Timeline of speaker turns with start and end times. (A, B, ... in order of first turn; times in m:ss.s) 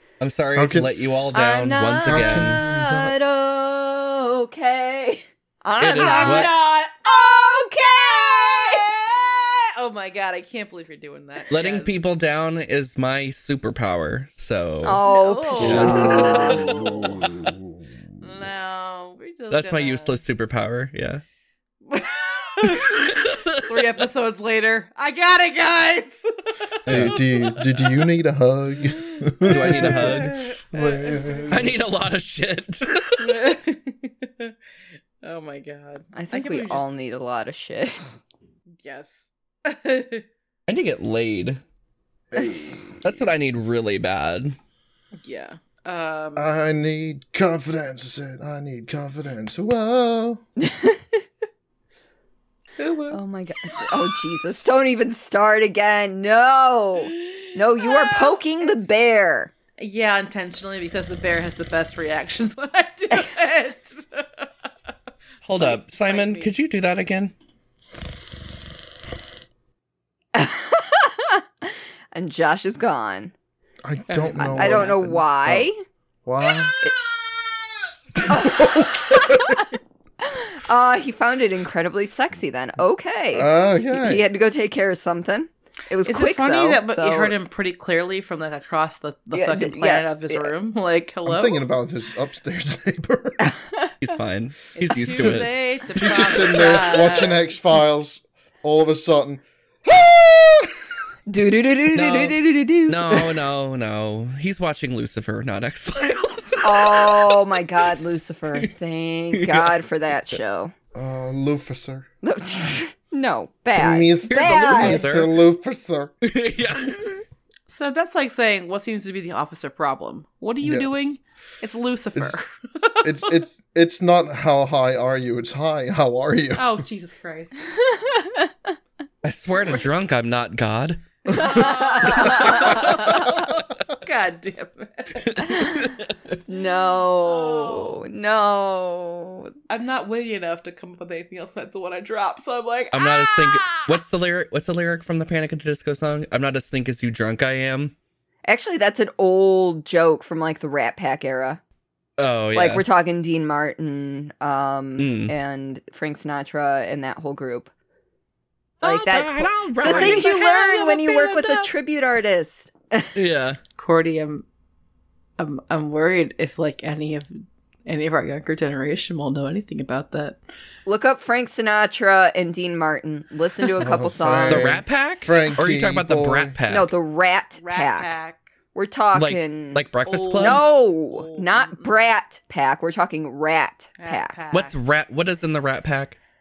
0:00.2-0:02.6 A
0:00.6-0:00.9 B
0:01.3-0:06.5 C
0:02.0-0:03.2 B
0:05.8-0:06.5 A
0:06.0-0:12.2 D
0:07.1-0:08.9 C
0:11.5-0:15.0 A
0:14.8-0:16.7 C
0:15.0-0:17.2 D
0:15.6-0:16.5 A
0:15.6-0:17.8 B
0:18.2-0:20.2 D
0:19.5-0:21.2 A
0:21.9-0:28.1 D
0:22.7-0:23.8 A
0:26.9-0:27.2 A
0:26.9-0:31.8 B
0:29.1-0:31.5 D
0:29.5-0:30.4 A
0:31.5-0:33.4 A
0:33.2-0:34.5 D
0:35.2-0:36.9 D
0:36.1-0:38.2 C
0:38.8-0:40.2 D
0:40.7-0:41.6 A
0:42.3-0:43.2 B
0:42.4-0:42.8 C
0:43.0-0:44.6 A
0:45.2-0:46.5 D
0:46.4-0:50.4 B
0:50.6-0:51.2 C
0:52.8-0:53.2 D
0:53.1-0:59.5 C
0:57.4-0:58.3 D
0:59.8-1:04.5 D
1:05.4-1:07.3 A
1:05.6-1:06.5 D
1:10.3-1:13.3 C
1:13.8-1:15.7 B
1:14.1-1:14.8 D
1:14.4-1:15.8 C
1:16.2-1:16.8 B
1:16.4-1:16.8 D
1:18.2-1:19.6 B
1:18.3-1:27.3 C
1:23.3-1:24.2 B
1:26.0-1:31.6 D
1:29.3-1:30.5 C
1:31.3-1:33.4 B
1:33.4-1:33.9 C
1:34.0-1:36.6 A
1:34.7-1:37.6 D
1:36.0-1:40.8 B
1:41.3-1:43.4 C
1:41.9-1:47.3 A
1:46.6-1:50.7 C
1:49.4-1:49.7 A
1:50.9-1:52.1 B
1:52.2-1:55.1 C
1:53.8-1:56.1 B
1:54.3-1:55.3 A
1:56.2-1:57.2 A
1:57.7-2:03.4 D
2:00.6-2:01.1 B
2:03.0-2:06.8 B
2:06.6-2:07.6 D
2:07.8-2:08.8 C
2:09.2-2:13.0 A
2:11.4-2:15.4 D
2:11.4-2:13.3 C
2:12.5-2:13.5 B
2:15.2-2:16.4 A
2:15.4-2:15.9 C
2:16.5-2:19.5 C
2:17.2-2:18.0 D
2:19.7-2:24.0 D
2:22.9-2:27.9 A
2:28.5-2:31.6 C
2:32.2-2:32.8 A
2:32.5-2:37.7 C
2:35.0-2:35.3 A
2:38.8-2:40.4 A
2:38.8-2:43.2 C
2:39.8-2:41.7 D
2:43.2-2:43.6 A
2:43.8-2:44.4 D
2:45.4-2:50.4 D
2:50.9-2:54.8 C
2:53.8-2:56.6 B
2:54.5-2:56.9 A
2:56.7-2:58.2 C
2:57.6-2:58.4 D
2:58.7-3:04.4 C
2:59.1-3:00.6 A
3:00.0-3:01.9 D
3:04.0-3:04.8 D
3:04.5-3:06.2 A